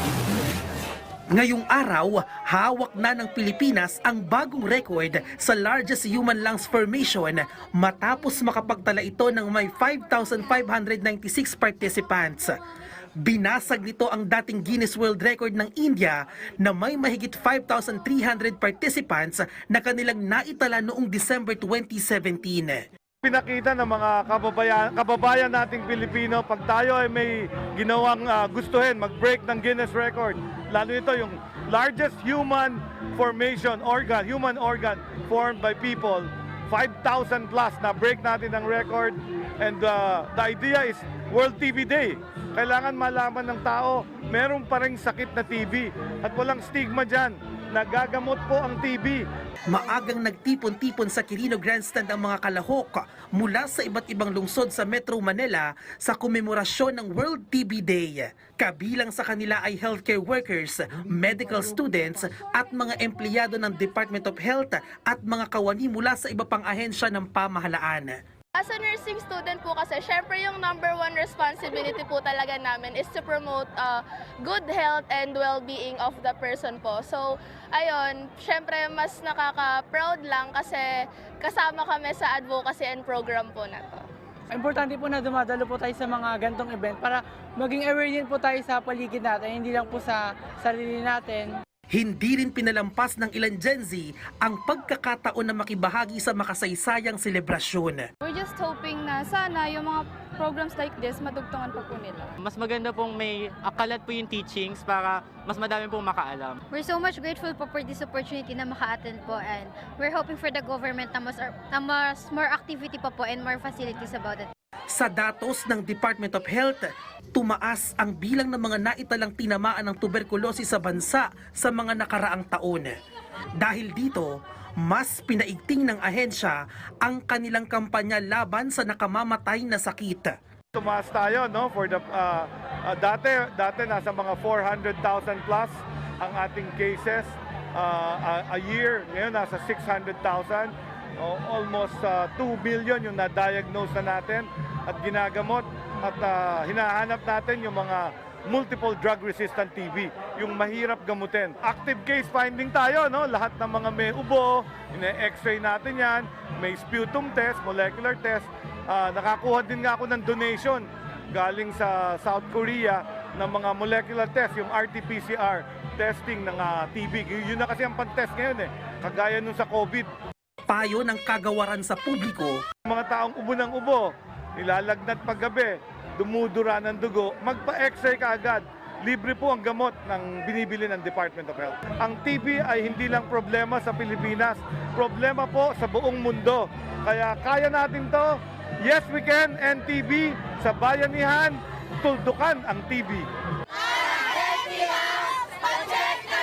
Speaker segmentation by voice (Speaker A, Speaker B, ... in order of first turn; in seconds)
Speaker A: 1.3-12.6, 13.2-22.8, 49.7-68.2, 91.9-98.1, 114.9-122.9, 123.6-130.3, 170.7-172.6
Speaker B: 23.2-49.2, 130.7-170.1, 172.8-193.2
Speaker C: 68.5-80.9, 81.4-84.0
Speaker D: 84.5-91.5
Speaker E: 98.2-102.3
Speaker F: 102.4-106.6
Speaker G: 106.7-114.5